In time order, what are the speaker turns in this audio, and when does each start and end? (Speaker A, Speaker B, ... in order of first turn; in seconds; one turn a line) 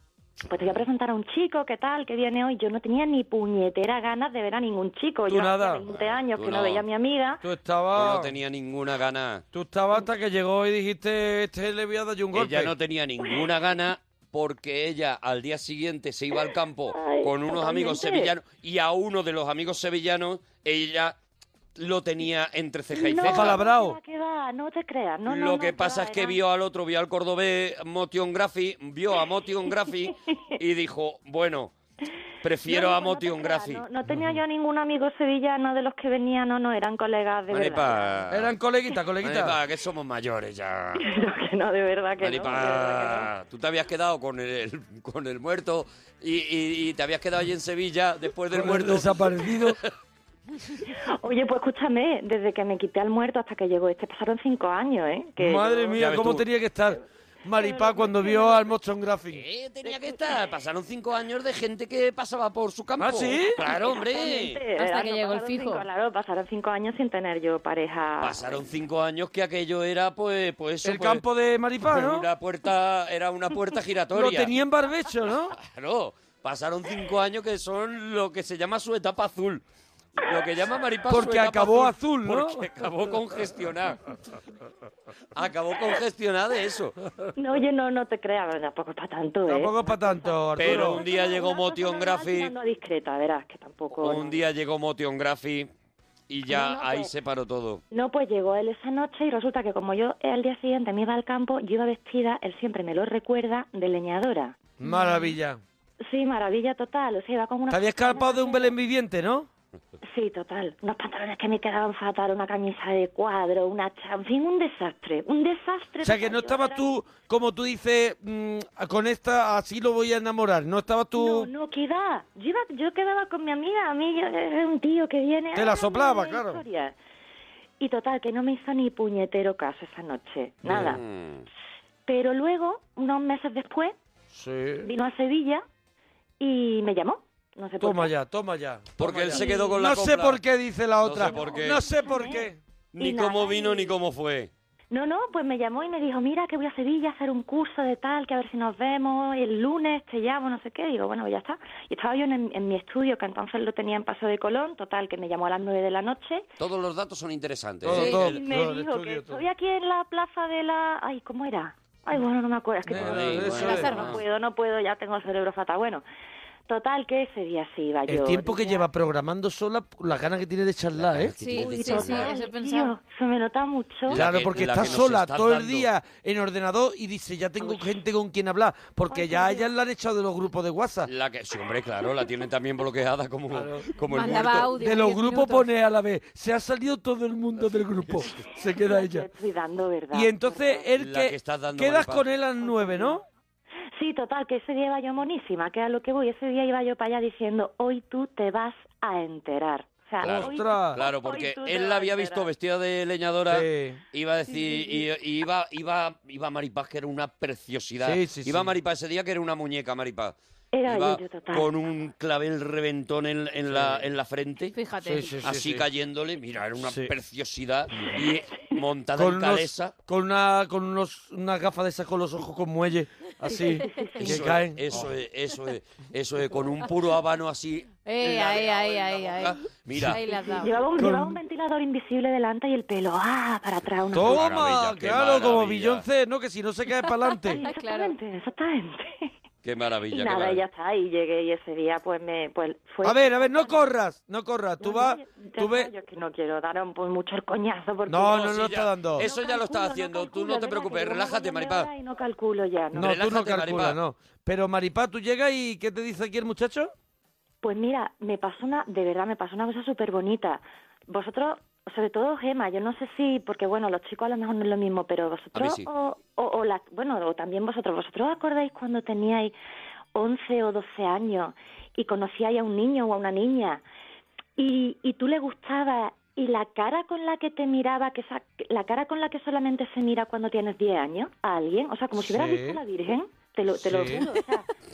Speaker A: 0.4-7.4
Speaker B: 5.3-5.8
Speaker C: 5.9-6.8
Speaker B: 7.4-8.3
Speaker C: 7.9-9.4
Speaker B: 9.5-12.7
Speaker C: 12.3-21.2
Speaker A: 16.4-18.4
Speaker C: 21.7-23.6
Speaker A: 22.9-26.4
Speaker B: 23.2-24.0
Speaker C: 25.2-31.7
Speaker C: 32.4-33.9
Speaker A: 32.6-38.2
Speaker C: 37.5-38.5
Speaker B: 38.3-39.6
Speaker C: 39.2-41.0
Speaker A: 41.0-43.3
Speaker C: 42.2-49.9
Speaker B: 48.5-49.8
Speaker A: 50.9-56.0
Speaker B: 55.4-59.4
Speaker C: 56.0-56.4
Speaker A: 57.5-58.8
Speaker C: 59.3-64.6
Speaker A: 59.8-60.3
Speaker B: 63.0-63.6
Speaker A: 63.7-68.6
Speaker D: 64.8-65.8
Speaker C: 68.2-71.2
Speaker B: 70.8-72.3
Speaker C: 71.8-74.5
Speaker B: 74.1-75.5
Speaker C: 75.5-79.6
Speaker C: 80.2-84.0
Speaker B: 81.1-82.7
Speaker C: 85.3-86.9
Speaker A: 87.4-94.4
Speaker B: 89.5-91.0
Speaker C: 90.6-92.5
Speaker C: 93.9-95.7
Speaker C: 96.3-97.8
Speaker A: 96.5-97.1
Speaker A: 97.9-104.6
Speaker B: 104.8-105.6
Speaker A: 106.0-108.8
Speaker B: 107.7-109.5
Speaker A: 110.0-116.9
Speaker B: 116.0-121.5
Speaker A: 121.2-127.0
Speaker B: 125.5-126.6
Speaker A: 127.8-131.0
Speaker C: 130.6-131.4
Speaker A: 132.1-133.9
Speaker B: 134.3-134.9
Speaker A: 134.8-135.6
Speaker A: 136.4-138.1
Speaker B: 137.8-142.6
Speaker C: 139.0-140.4
Speaker A: 139.3-139.8
Speaker C: 141.0-141.8
Speaker A: 141.2-144.0
Speaker C: 142.9-144.5
Speaker A: 144.9-156.4
Speaker C: 156.6-158.4
Speaker B: 157.8-159.4
Speaker A: 157.9-166.0
Speaker B: 162.8-164.0
Speaker C: 162.9-164.2
Speaker D: 163.6-164.2
Speaker A: 166.7-168.9
Speaker B: 168.1-171.3
Speaker C: 170.9-172.3
Speaker D: 171.4-172.9
Speaker A: 171.6-174.2
Speaker C: 174.1-175.9
Speaker B: 174.1-181.1
Speaker A: 177.6-177.9
Speaker A: 179.1-179.7
Speaker C: 181.0-184.7
Speaker B: 183.5-183.9
Speaker D: 184.1-185.7
Speaker B: 184.8-189.3
Speaker C: 188.1-188.3
Speaker A: 188.7-190.9
Speaker B: 190.1-193.2
Speaker C: 190.9-192.3
Speaker A: 192.6-193.2
Speaker A: 193.9-202.5
Speaker B: 200.2-201.0
Speaker C: 200.2-214.7
Speaker B: 203.5-204.0
Speaker A: 204.5-205.0
Speaker B: 208.0-208.7
Speaker A: 210.7-211.7
Speaker B: 213.7-214.1
Speaker D: 214.7-215.4
Speaker B: 215.0-215.8
Speaker C: 215.4-219.9
Speaker B: 216.8-217.1
Speaker B: 219.2-225.1
Speaker A: 223.5-224.2
Speaker C: 224.2-230.2
Speaker D: 228.1-230.9
Speaker A: 230.3-234.4
Speaker B: 230.9-231.4
Speaker B: 234.1-237.6
Speaker C: 234.1-236.0
Speaker A: 237.5-239.3
Speaker D: 237.6-238.2
Speaker C: 239.6-240.6
Speaker A: 240.1-243.9
Speaker B: 243.0-245.9
Speaker A: 244.8-248.6
Speaker B: 248.1-249.3
Speaker C: 248.3-251.9
Speaker A: 249.2-253.1
Speaker B: 252.9-256.9
Speaker C: 252.9-254.0
Speaker A: 257.6-269.5
Speaker C: 265.5-265.9
Speaker A: 270.1-273.8
Speaker A: 274.6-284.6
Speaker B: 282.2-282.8
Speaker B: 283.8-284.2